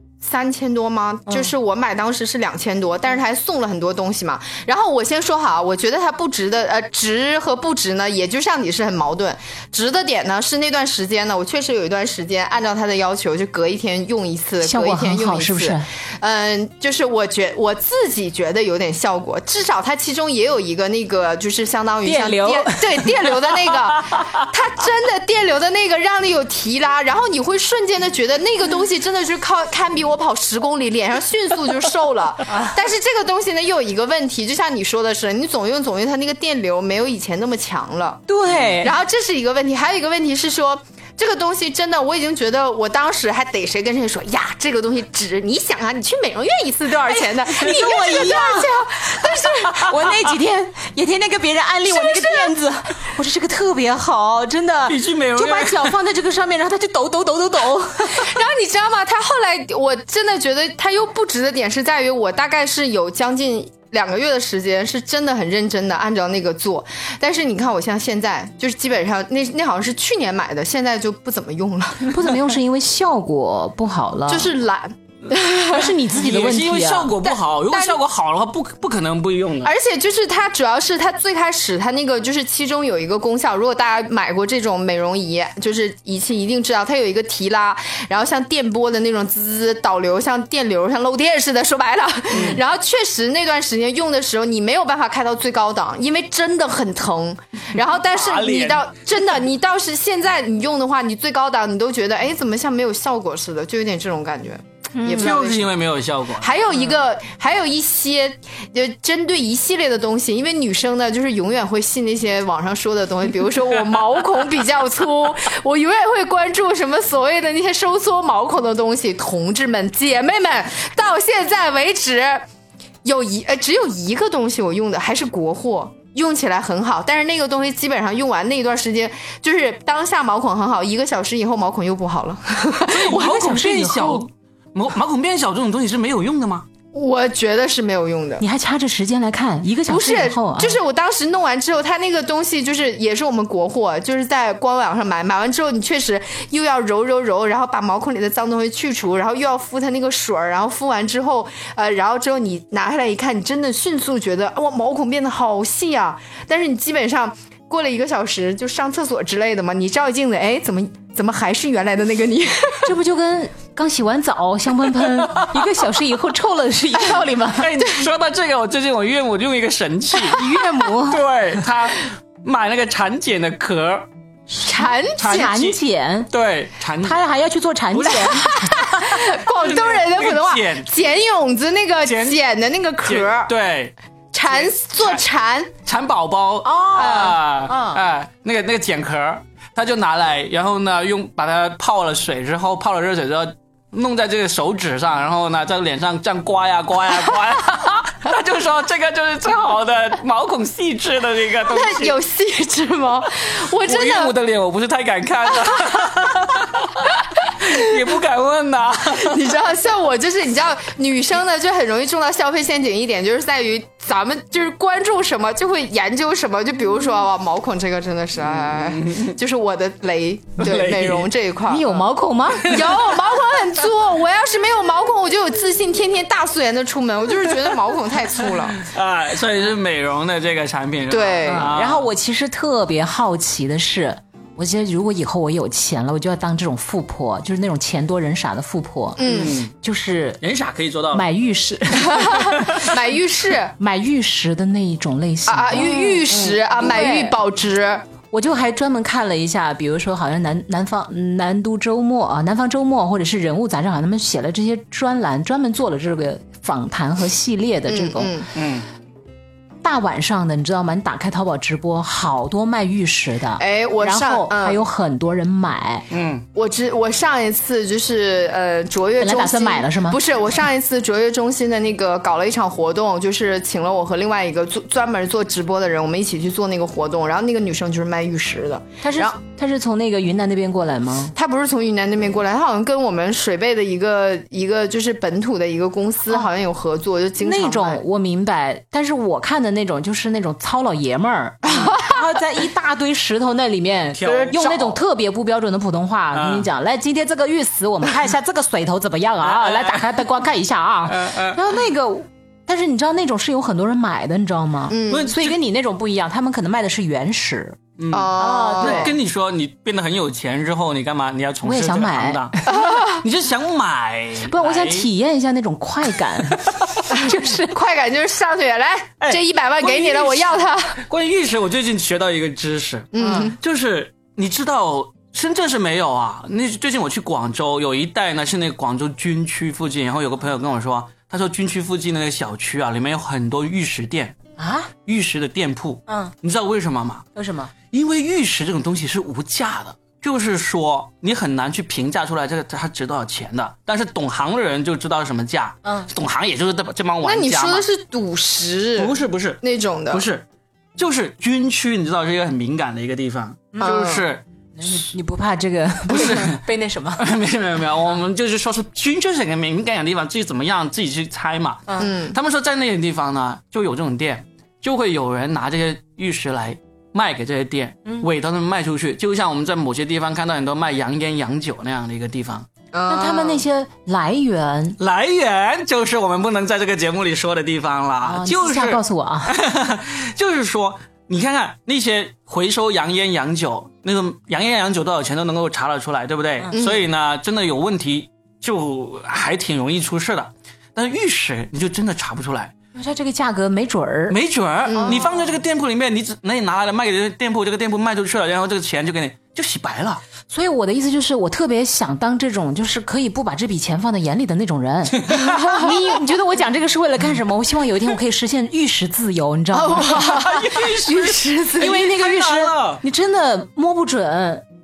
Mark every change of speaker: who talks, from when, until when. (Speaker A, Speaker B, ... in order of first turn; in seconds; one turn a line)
Speaker A: 0.2-50.0
Speaker B: 14.6-15.9
Speaker B: 22.1-23.1
Speaker B: 38.3-39.0
Speaker B: 47.1-58.4
Speaker A: 51.9-52.6
Speaker C: 54.9-55.9
Speaker A: 58.2-72.2
Speaker B: 72.1-74.5
Speaker A: 74.3-76.0
Speaker B: 75.7-77.2
Speaker C: 76.1-79.7
Speaker A: 77.2-78.0
Speaker A: 79.6-105.7
Speaker C: 92.3-92.6
Speaker C: 98.1-98.9
Speaker B: 105.0-105.3
Speaker C: 105.1-106.5
Speaker A: 106.4-122.5
Speaker A: 123.0-133.6
Speaker C: 132.9-136.7
Speaker B: 133.1-134.3
Speaker A: 136.9-138.4
Speaker B: 138.4-140.8
Speaker A: 139.9-162.9
Speaker B: 162.8-167.7
Speaker C: 167.6-170.4
Speaker A: 167.8-168.1
Speaker B: 170.3-171.2
Speaker C: 171.1-174.1
Speaker A: 174.6-175.5
Speaker C: 175.2-175.8
Speaker B: 175.2-176.3
Speaker C: 176.3-177.2
Speaker B: 177.0-178.8
Speaker C: 177.9-180.9
Speaker A: 178.4-183.5
Speaker C: 182.1-182.4
Speaker C: 183.1-183.9
Speaker A: 184.3-185.7
Speaker C: 184.5-185.2
Speaker C: 185.9-202.2
Speaker B: 186.6-188.0
Speaker A: 187.0-187.4
Speaker A: 201.7-204.4
Speaker C: 203.8-209.5
Speaker A: 205.7-206.1
Speaker A: 209.1-228.8
Speaker C: 218.7-219.3
Speaker C: 220.6-221.3
Speaker B: 221.7-222.8
Speaker C: 228.8-232.1
Speaker A: 231.1-231.7
Speaker B: 231.5-240.4
Speaker A: 239.2-239.6
Speaker C: 239.2-239.7
Speaker C: 240.4-241.3
Speaker B: 241.1-242.8
Speaker A: 242.0-243.7
Speaker C: 242.5-242.8
Speaker B: 243.8-247.4
Speaker A: 245.5-248.1
Speaker B: 248.3-258.4
Speaker A: 257.9-258.5
Speaker C: 258.6-258.9
Speaker B: 259.8-266.1
Speaker A: 263.6-264.8
Speaker C: 266.1-266.4
Speaker A: 266.5-279.4
Speaker B: 269.2-270.2
Speaker B: 279.0-281.3
Speaker A: 281.3-288.0
Speaker B: 287.4-307.8
Speaker A: 291.7-292.2
Speaker C: 294.1-295.0
Speaker A: 294.2-294.8
Speaker C: 296.3-296.7
Speaker C: 299.4-300.1
Speaker C: 301.1-301.6
Speaker A: 304.9-305.3
Speaker C: 305.1-305.6
Speaker C: 308.0-315.1
Speaker A: 308.1-309.1
Speaker B: 308.4-309.1
Speaker B: 311.6-312.8
Speaker A: 312.7-313.2
Speaker B: 314.5-317.8
Speaker A: 317.1-321.0
Speaker C: 319.2-334.4
Speaker A: 323.1-323.6
Speaker B: 323.2-323.5
Speaker B: 334.6-334.9
Speaker C: 335.1-337.3
Speaker B: 336.1-336.3
Speaker B: 337.4-337.7
Speaker C: 337.9-347.9
Speaker B: 345.8-346.1
Speaker A: 347.2-350.3
Speaker C: 349.0-350.4
Speaker C: 351.0-354.4
Speaker B: 353.7-354.0
Speaker A: 353.8-354.3
Speaker B: 354.8-357.3
Speaker C: 356.1-356.6
Speaker C: 357.2-372.7
Speaker A: 362.0-362.4
Speaker A: 372.9-373.6
Speaker B: 373.1-375.0
Speaker C: 375.0-392.7
Speaker B: 378.2-379.6
Speaker A: 386.7-387.1
Speaker B: 392.9-394.4
Speaker C: 394.3-400.2
Speaker A: 394.9-395.3
Speaker B: 395.0-395.4
Speaker B: 400.5-410.5
Speaker C: 405.2-405.6
Speaker A: 409.7-412.0
Speaker C: 410.0-413.0
Speaker B: 411.8-414.6